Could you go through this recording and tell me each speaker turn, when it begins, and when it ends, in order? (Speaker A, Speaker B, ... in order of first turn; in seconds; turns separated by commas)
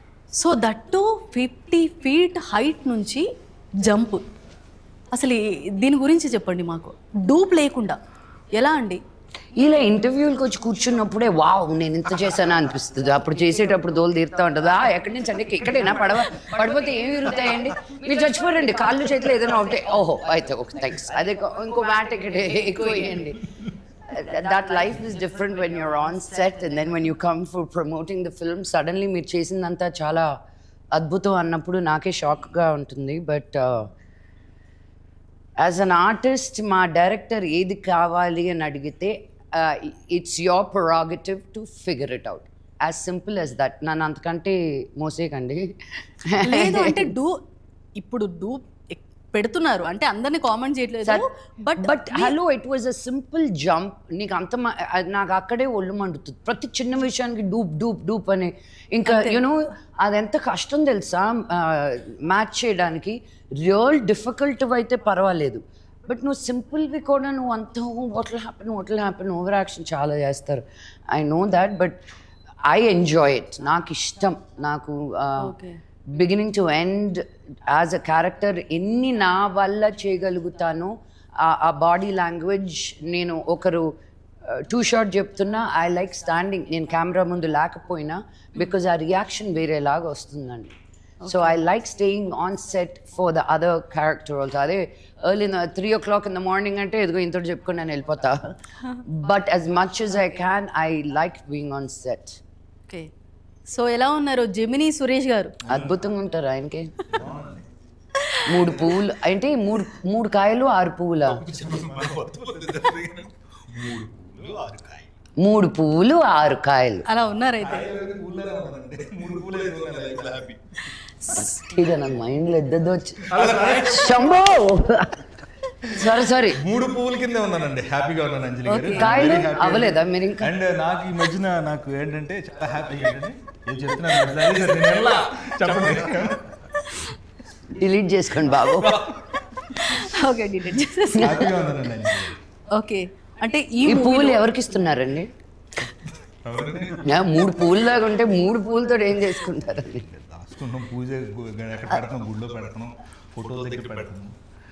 Speaker A: 0.4-3.2, Speaker A: 3.8-4.2, Speaker A: 5.1-8.0, Speaker A: 8.5-9.0, Speaker B: 9.6-23.4, Speaker B: 24.1-30.3, Speaker B: 30.9-33.9, Speaker B: 35.6-45.7, Speaker B: 46.3-47.1, Speaker A: 46.4-47.4, Speaker A: 48.0-52.3, Speaker B: 51.8-72.0, Speaker A: 59.0-59.4, Speaker B: 72.7-75.5, Speaker A: 75.4-75.8, Speaker B: 76.1-83.9, Speaker B: 84.4-90.7, Speaker A: 91.2-91.6, Speaker B: 91.2-98.5, Speaker B: 99.1-102.4, Speaker A: 103.7-105.6, Speaker C: 105.7-105.9, Speaker B: 105.7-106.9, Speaker C: 107.1-107.7, Speaker B: 108.5-111.5, Speaker C: 111.3-115.1, Speaker B: 115.4-117.0, Speaker A: 117.1-117.8, Speaker C: 117.4-120.6, Speaker A: 121.2-121.7, Speaker B: 121.3-125.3, Speaker C: 123.3-124.2, Speaker B: 125.8-126.6, Speaker C: 126.6-136.5, Speaker A: 128.7-129.2, Speaker B: 128.9-130.5, Speaker B: 137.7-139.0, Speaker A: 139.6-141.4, Speaker B: 141.1-141.5, Speaker C: 141.2-142.4, Speaker A: 142.7-144.4, Speaker B: 143.8-145.3, Speaker C: 146.4-147.1, Speaker B: 147.0-150.0, Speaker C: 149.9-154.3